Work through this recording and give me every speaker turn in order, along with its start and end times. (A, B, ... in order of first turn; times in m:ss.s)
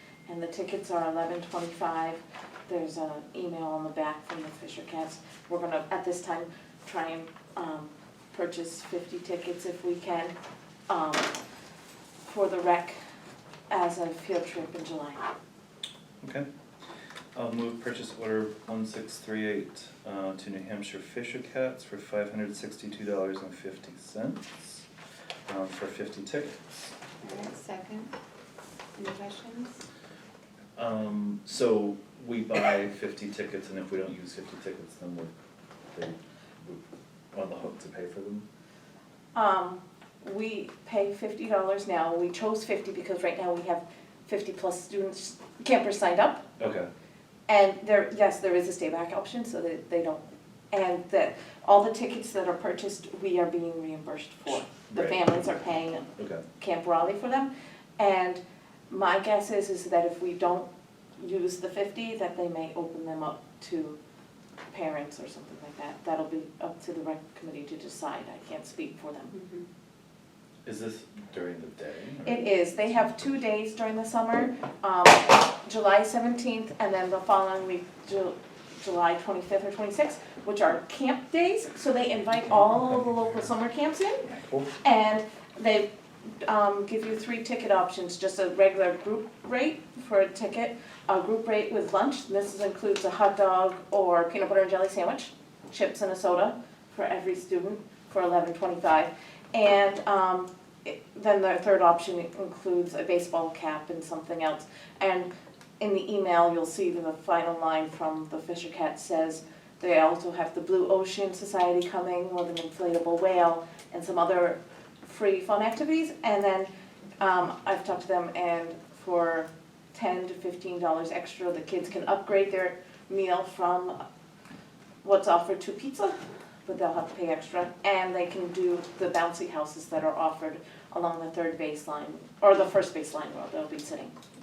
0:00.2-0:10.3 A
0:10.9-0:11.4 A
0:12.2-0:13.0 A
0:13.7-0:15.2 A
0:16.2-0:16.4 B
0:17.3-0:24.8 B
0:25.5-0:26.6 B
0:27.2-0:28.1 C
0:29.0-0:29.8 C
0:30.8-0:35.3 B
0:35.9-0:38.4 B
0:39.3-0:46.5 A
0:46.6-0:46.9 B
0:47.5-1:04.0 A
0:54.9-0:55.3 B
0:56.2-0:56.4 B
1:04.7-1:09.4 A
1:09.3-1:09.6 C
1:10.6-1:12.4 B
1:12.2-1:25.9 A
1:24.3-1:24.7 B
1:26.4-2:04.0 A
2:05.0-2:14.1 A